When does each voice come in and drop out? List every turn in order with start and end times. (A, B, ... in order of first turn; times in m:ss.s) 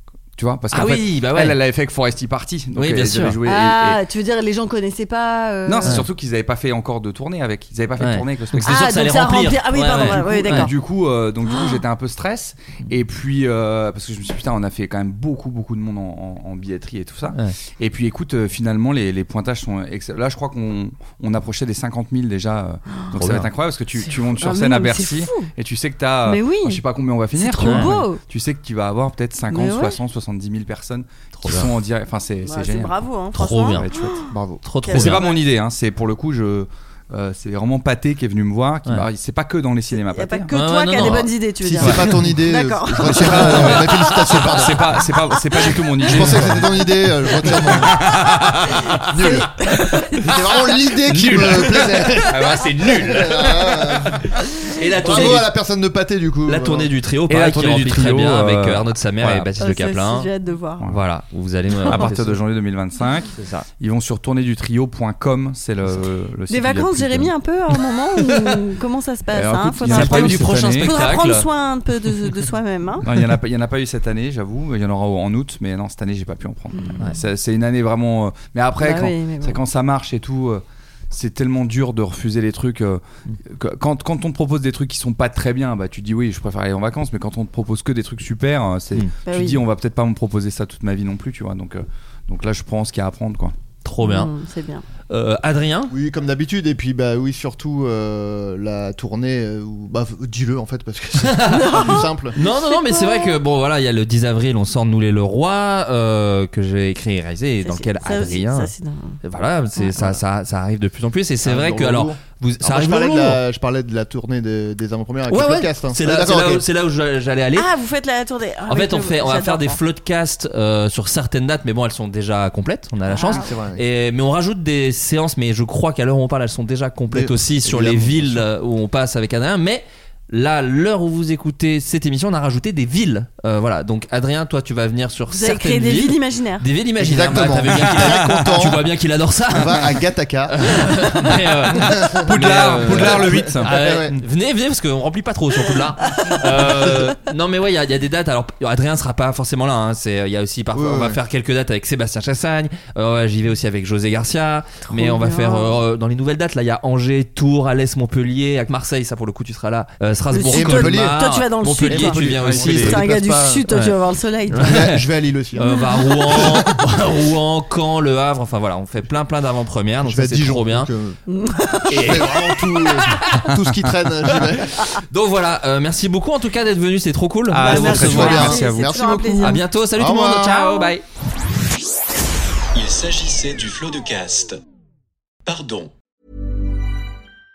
0:00.4-0:04.0 A
0:00.7-0:01.6 B
0:02.7-0:03.4 B
0:03.4-0:06.0 C
0:05.6-0:08.8 A
0:08.0-0:10.7 B
0:08.6-0:10.8 C
0:10.0-0:32.9 A
0:11.4-0:11.8 C
0:23.2-0:23.5 B
0:24.0-0:25.5 C
0:26.2-0:26.8 C
0:27.3-0:28.2 C
0:27.6-0:27.9 B
0:29.5-0:30.0 C
0:31.4-0:31.7 B
0:32.4-0:34.3 C
0:33.3-0:33.9 B
0:33.7-0:34.2 A
0:34.3-0:34.6 D
0:34.6-0:35.2 B
0:34.8-0:35.4 C
0:34.9-0:40.5 A
0:39.9-0:44.6 C
0:40.5-0:41.3 B
0:41.6-0:44.9 D
0:43.0-0:46.8 A
0:45.6-0:46.3 C
0:46.0-0:48.1 D
0:47.4-0:49.5 A
0:49.0-0:49.9 C
0:49.0-0:49.5 D
0:50.2-0:54.4 D
0:51.0-0:55.5 B
0:52.3-0:53.7 A
0:54.9-0:56.9 D
0:56.4-1:00.3 B
0:57.3-0:59.5 A
0:59.6-1:00.9 C
1:00.8-1:02.4 B
1:01.8-1:07.3 A
1:03.3-1:03.7 B
1:06.5-1:13.1 C
1:09.3-1:10.9 A
1:09.8-1:11.5 B
1:13.0-1:33.5 A
1:16.7-1:17.1 C
1:18.8-1:19.6 C
1:29.2-1:29.6 C
1:33.8-1:34.3 B
1:34.0-1:34.8 C
1:35.1-1:35.9 B
1:35.9-1:42.4 D
1:41.2-1:48.7 B
1:41.5-1:43.4 C
1:47.6-1:49.2 C
1:49.2-1:53.4 B
1:49.9-1:50.2 D
1:51.4-1:56.6 D
1:55.3-1:57.7 B
1:57.5-1:59.8 C
1:58.7-2:43.0 B
2:03.1-2:03.5 C
2:03.3-2:03.8 D
2:07.1-2:08.4 D
2:15.3-2:16.7 C
2:17.0-2:18.9 D
2:17.6-2:18.4 A
2:19.5-2:20.8 D
2:21.8-2:23.7 A
2:21.8-2:24.2 D
2:26.1-2:26.4 C
2:26.6-2:27.0 D
2:30.7-2:31.2 D
2:34.8-2:35.8 C
2:40.3-2:44.8 C
2:40.5-2:41.2 D
2:41.9-2:43.7 D
2:42.3-2:42.8 A
2:43.7-2:43.9 B
2:44.5-2:50.9 B
2:44.6-2:46.8 D
2:45.7-2:45.9 C
2:50.0-2:51.2 D
2:51.3-2:52.2 C
2:51.8-2:54.9 D
2:51.9-2:53.5 B
2:55.1-2:58.5 B
2:57.5-2:58.9 A
2:57.6-2:59.6 C
2:57.7-3:00.9 D
2:59.4-3:01.0 B
3:02.7-3:04.6 E
3:05.4-3:05.9 E